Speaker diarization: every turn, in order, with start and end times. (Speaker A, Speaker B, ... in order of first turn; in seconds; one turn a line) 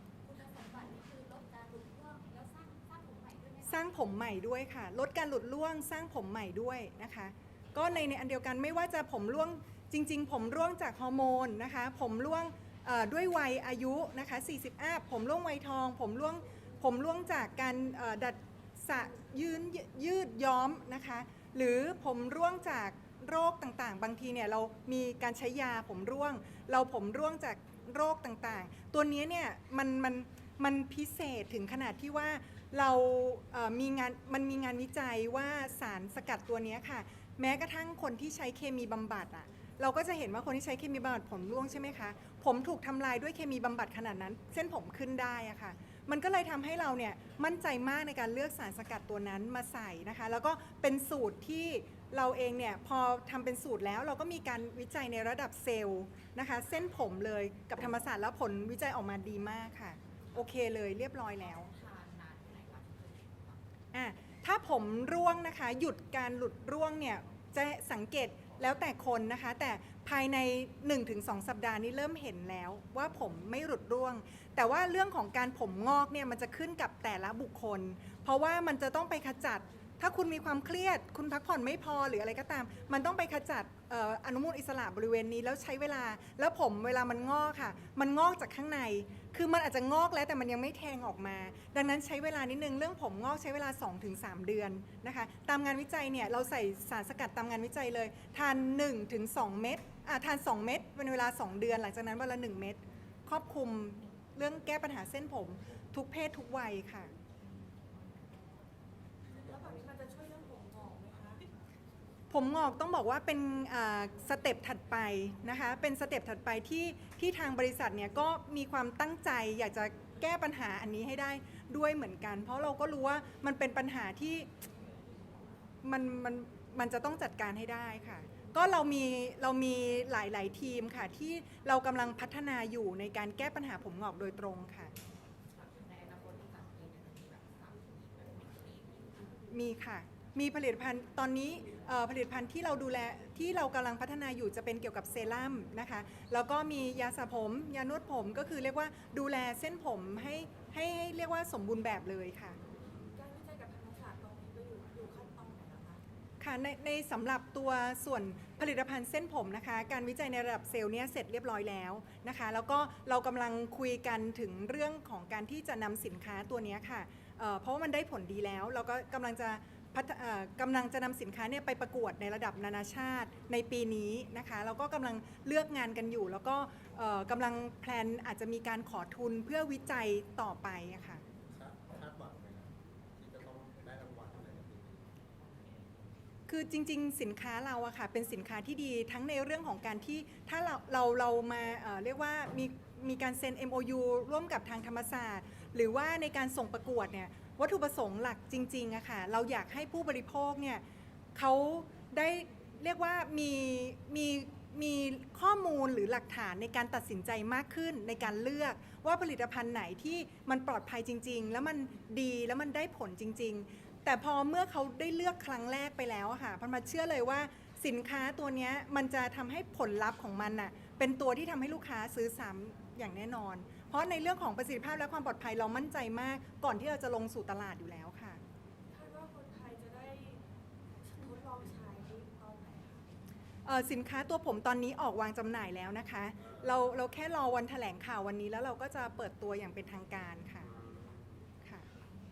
Speaker A: 0.2-4.0
Speaker B: 3.6-61.7
Speaker A: 61.5-63.6
Speaker B: 63.9-107.1
Speaker C: 109.5-111.5
Speaker B: 112.3-124.5
Speaker B: 125.8-134.9
Speaker A: 135.6-139.3
Speaker B: 139.5-152.6
Speaker D: 152.9-153.2
Speaker C: 153.1-156.0
Speaker B: 156.4-181.2
Speaker D: 181.4-185.1
Speaker B: 186.5-200.8
Speaker B: 201.3-228.4
Speaker C: 228.9-230.4
Speaker C: 231.1-233.1
Speaker B: 233.6-240.7
Speaker D: 236.4-236.8
Speaker D: 240.6-241.4
Speaker B: 241.6-241.9